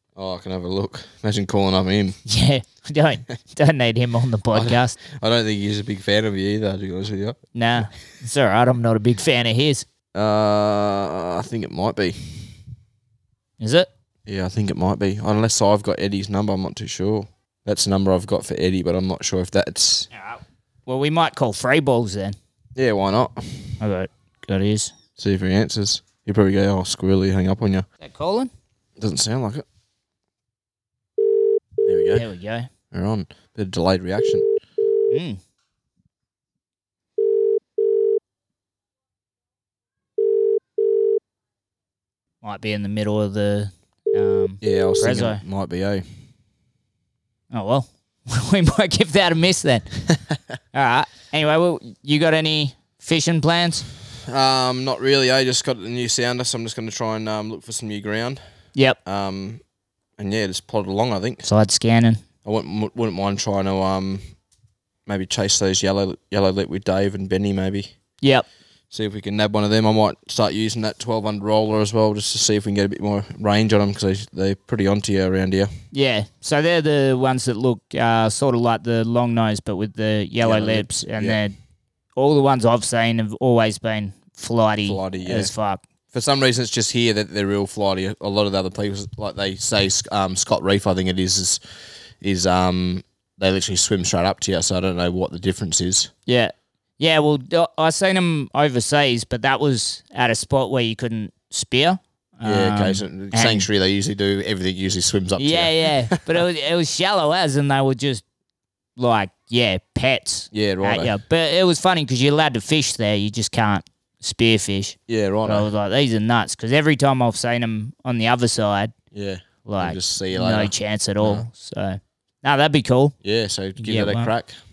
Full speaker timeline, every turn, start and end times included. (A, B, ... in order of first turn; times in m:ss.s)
0:00.2-0:02.2 A
0:02.3-0:05.0 B
0:04.5-0:07.8 A
0:07.5-0:09.8 B
0:10.1-0:12.5 A
0:13.6-0:13.9 B
0:14.2-0:20.1 A
0:20.1-0:22.4 B
0:22.8-0:23.7 A
0:23.8-0:24.9 B
0:25.2-0:27.8 A
0:28.0-0:28.5 B
0:29.0-0:29.6 A
0:31.8-0:32.2 A
0:32.1-0:32.7 B
0:32.9-0:34.4 A
0:35.1-0:35.4 B
0:42.4-0:45.4 B
0:44.6-0:46.0 A
0:47.5-0:49.9 B
0:50.7-0:53.8 B
0:54.3-0:58.4 A
0:59.0-0:59.6 A
1:00.2-1:01.5 A
1:01.4-1:02.2 B
1:02.4-1:04.2 A
1:05.0-1:07.9 A
1:08.9-1:15.7 A
1:15.9-1:21.5 B
1:20.4-1:21.4 A
1:22.2-1:25.8 B
1:24.8-1:25.5 A
1:26.1-1:31.6 A
1:32.2-1:36.1 A
1:36.3-1:43.7 B
1:42.4-1:46.2 A
1:45.4-1:48.2 B
1:49.0-1:58.9 B
1:50.5-1:51.2 A
1:55.1-1:55.7 A
1:59.1-2:01.5 A
1:59.6-2:03.1 B
2:03.2-2:04.5 A
2:03.8-2:04.3 B